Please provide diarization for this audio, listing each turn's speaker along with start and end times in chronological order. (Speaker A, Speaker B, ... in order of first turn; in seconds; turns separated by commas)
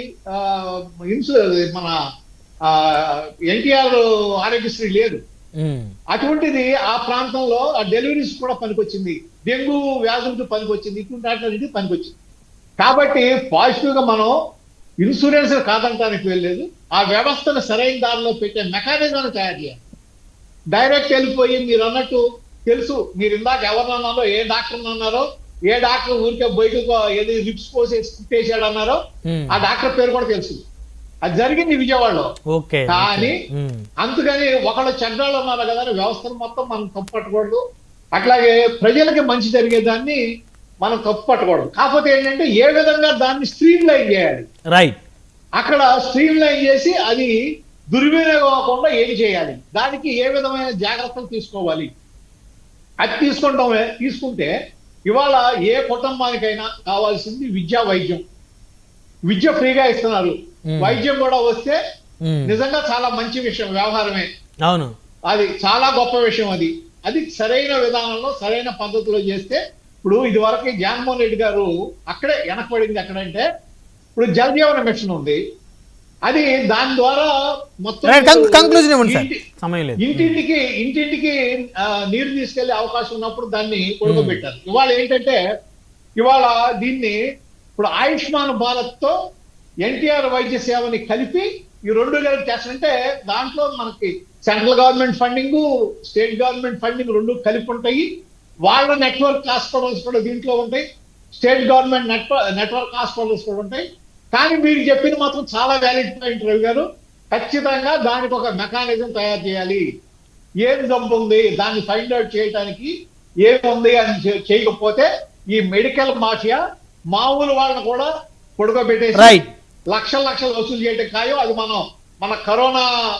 Speaker A: 0.4-1.9, Speaker A: 3.5-5.2, Speaker B: 5.6-5.9, Speaker A: 6.1-12.2, Speaker A: 12.8-14.3, Speaker A: 15.0-19.8, Speaker A: 20.7-29.0, Speaker B: 29.3-29.5, Speaker A: 29.5-30.6, Speaker A: 31.3-32.3, Speaker B: 32.5-33.8, Speaker A: 32.9-33.3, Speaker A: 34.0-37.6, Speaker A: 38.1-40.2, Speaker A: 40.8-44.5, Speaker A: 45.6-47.3, Speaker A: 47.9-51.9, Speaker A: 53.0-54.5, Speaker A: 55.1-58.2, Speaker A: 59.3-61.8, Speaker B: 60.7-61.0, Speaker B: 62.2-62.5, Speaker A: 62.5-64.3, Speaker B: 64.7-64.9, Speaker A: 65.3-73.4, Speaker A: 74.2-75.4, Speaker A: 76.3-77.3, Speaker A: 77.8-79.4, Speaker B: 78.0-80.4, Speaker A: 80.0-81.4, Speaker A: 82.1-85.4, Speaker B: 84.1-84.4, Speaker A: 86.2-87.2, Speaker A: 87.8-89.1, Speaker A: 89.9-98.1, Speaker A: 98.7-109.8, Speaker A: 110.6-112.9, Speaker A: 113.5-116.6, Speaker A: 117.1-118.1, Speaker A: 118.6-122.9, Speaker B: 119.2-119.4